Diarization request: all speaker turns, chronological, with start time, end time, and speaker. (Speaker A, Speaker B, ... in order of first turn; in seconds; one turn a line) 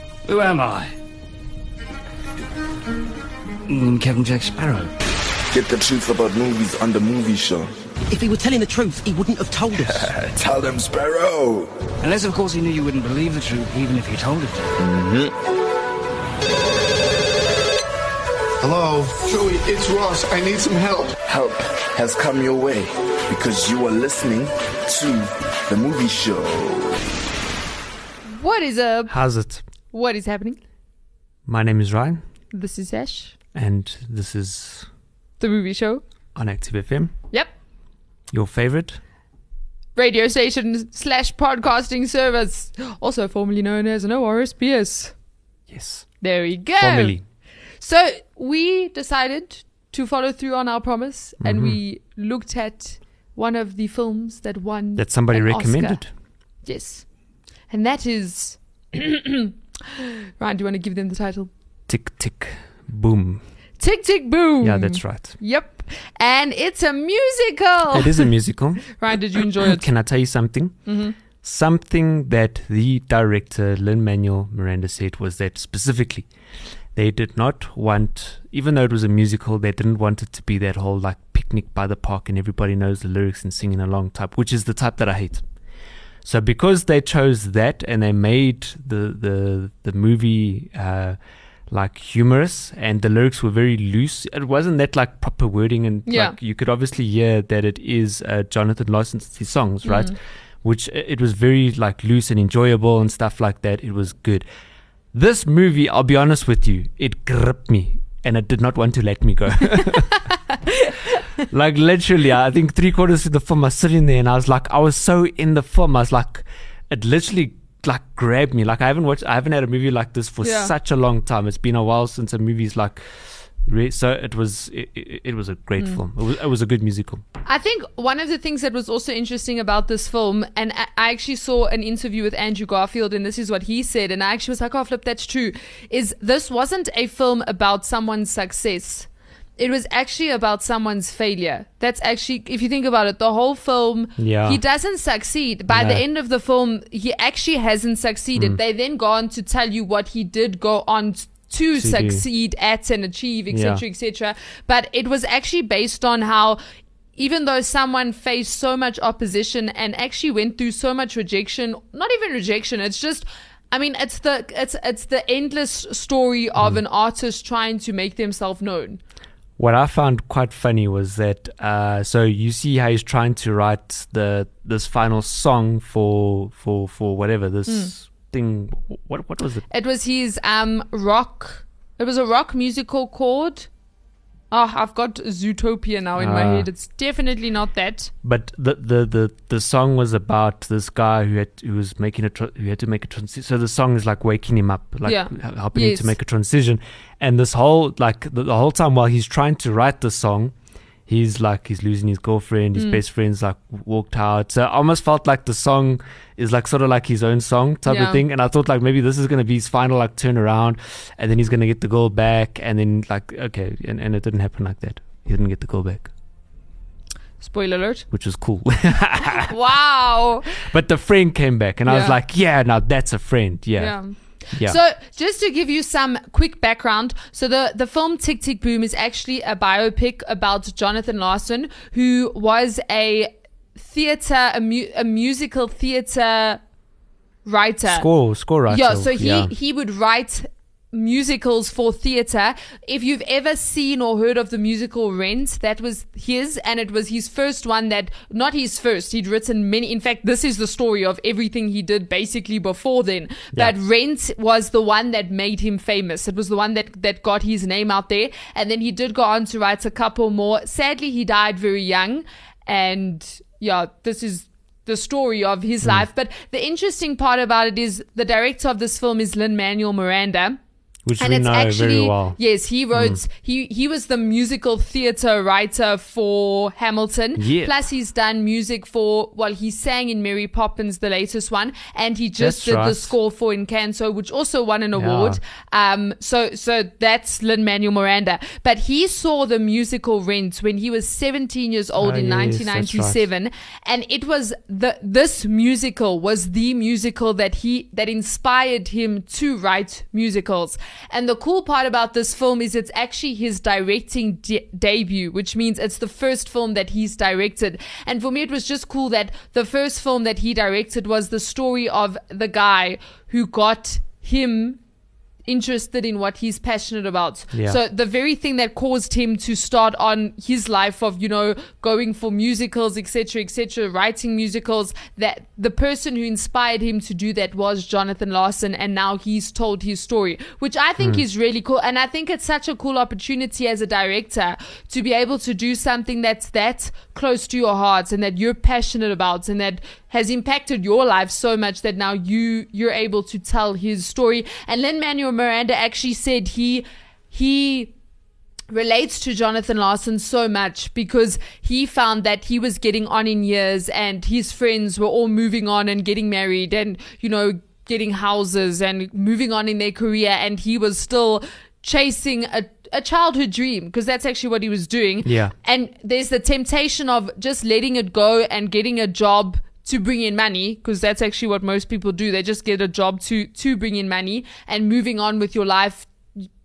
Speaker A: 0.3-0.9
Speaker A: 3.7-4.9
Speaker B: 5.5-7.7
Speaker C: 8.1-10.1
Speaker B: 9.8-11.7
Speaker A: 12.0-14.8
Speaker B: 14.8-15.3
Speaker D: 18.6-21.2
Speaker B: 21.3-26.9
Speaker E: 28.2-29.1
Speaker F: 29.1-29.6
Speaker E: 29.9-30.6
Speaker F: 31.5-32.2
Speaker E: 32.5-33.4
Speaker F: 33.5-34.9
Speaker E: 35.4-36.0
Speaker F: 36.4-37.1
Speaker F: 38.3-39.0
Speaker E: 40.0-45.1
Speaker F: 45.7-46.1
Speaker E: 46.2-47.2
Speaker F: 46.8-47.2
Speaker E: 47.8-56.0
Speaker F: 51.4-51.8
Speaker F: 55.0-56.1
Speaker E: 56.6-57.1
Speaker E: 57.7-61.5
Speaker F: 61.9-63.4
Speaker E: 63.8-68.3
Speaker F: 64.6-65.4
Speaker F: 67.9-70.8
Speaker E: 69.0-69.9
Speaker E: 70.9-71.2
Speaker F: 71.4-76.3
Speaker F: 77.0-85.4
Speaker F: 86.2-91.2
Speaker F: 91.7-104.5
Speaker E: 96.1-96.4
Speaker E: 99.8-100.2
Speaker F: 105.1-110.2
Speaker F: 111.5-123.0
Speaker E: 120.4-120.7
Speaker F: 123.6-127.2
Speaker E: 127.5-156.6
Speaker F: 144.2-144.6
Speaker F: 145.7-146.0
Speaker F: 151.8-152.2
Speaker F: 153.5-153.8
Speaker E: 157.2-169.0
Speaker F: 169.6-179.6
Speaker E: 177.7-177.9
Speaker E: 179.7-183.7
Speaker E: 184.5-188.1
Speaker F: 186.2-186.7
Speaker F: 188.2-200.5
Speaker E: 195.0-196.2
Speaker F: 201.1-216.1
Speaker E: 207.9-208.2
Speaker E: 217.4-218.1
Speaker F: 218.1-219.6
Speaker E: 219.3-220.5
Speaker F: 220.6-224.0
Speaker E: 221.9-222.2
Speaker E: 223.8-236.6
Speaker F: 224.5-224.8
Speaker E: 237.4-238.1
Speaker F: 237.9-239.5
Speaker E: 238.7-270.6
Speaker F: 271.1-272.4
Speaker E: 271.2-314.8
Speaker F: 272.9-273.2
Speaker F: 277.4-277.7
Speaker F: 282.4-283.1
Speaker F: 285.0-285.4
Speaker F: 292.0-293.2
Speaker E: 315.5-347.9
Speaker F: 317.5-317.8
Speaker E: 348.7-376.1
Speaker F: 365.2-365.5